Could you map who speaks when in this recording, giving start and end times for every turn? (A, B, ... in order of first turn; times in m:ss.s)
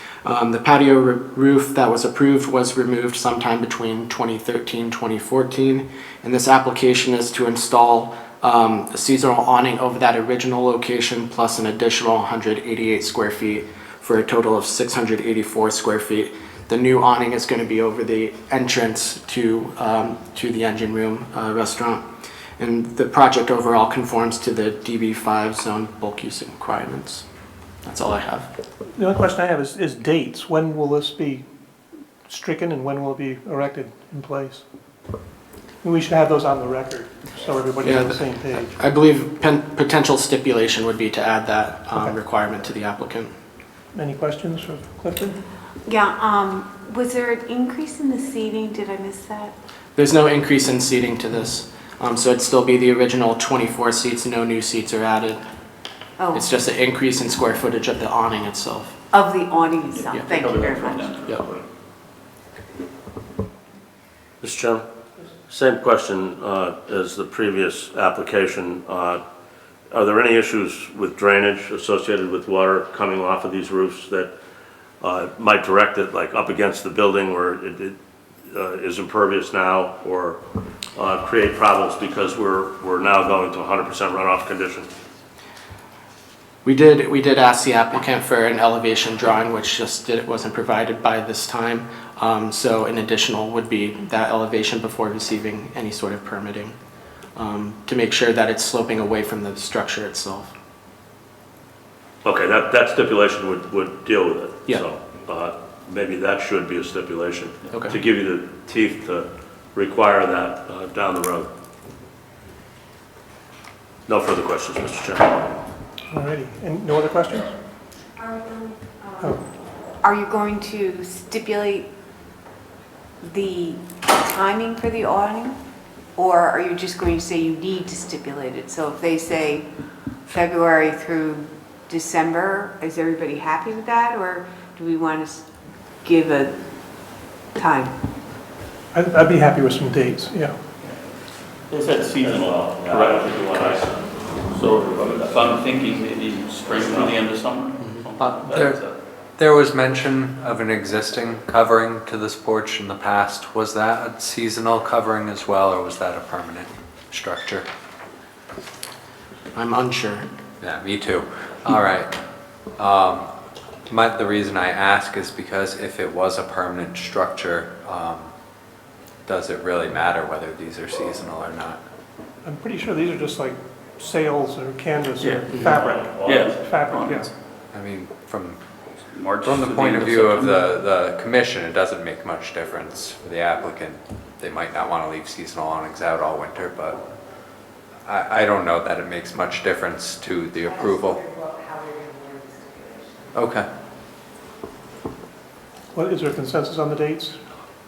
0:00.2-0:22.0 A
0:22.6-0:27.2 A
0:27.8-0:28.5 A
0:28.9-0:31.4 B
0:32.3-0:34.6 B
0:35.8-0:38.8 B
0:37.8-0:43.3 A
0:43.9-0:45.4 B
0:45.8-0:49.5 C
0:50.0-0:55.4 A
0:56.2-0:56.5 C
0:56.3-0:59.0 A
0:59.1-1:01.3 C
0:59.9-1:01.6 D
1:04.4-1:04.8 E
1:05.5-1:09.2 E
1:09.9-1:14.3 E
1:15.0-1:20.4 E
1:20.9-1:24.9 E
1:26.6-1:36.8 A
1:37.4-1:40.5 A
1:42.2-1:51.5 E
1:54.1-1:55.5 E
1:56.1-1:57.5 B
1:58.2-1:59.3 C
2:00.0-2:01.9 C
2:03.2-2:05.6 C
2:06.2-2:09.7 C
2:10.2-2:15.5 C
2:16.0-2:16.6 C
2:17.5-2:17.9 C
2:18.9-2:20.6 B
2:21.7-2:23.9 D
2:22.2-2:24.3 E
2:24.5-2:28.9 D
2:26.7-2:27.1 E
2:28.2-2:37.6 F
2:39.5-2:40.3 A
2:40.6-2:42.1 F
2:42.8-2:43.3 F
2:43.9-2:48.3 F
2:49.2-2:51.8 F
2:52.4-2:57.3 B
2:55.2-2:57.3 D
2:55.6-2:56.6 E
2:57.7-2:58.6 F
2:59.1-3:00.6 D
2:59.4-3:07.0 F
3:08.0-3:11.2 F
3:11.0-3:13.3 C
3:13.3-3:13.7 F
3:15.9-3:17.4 B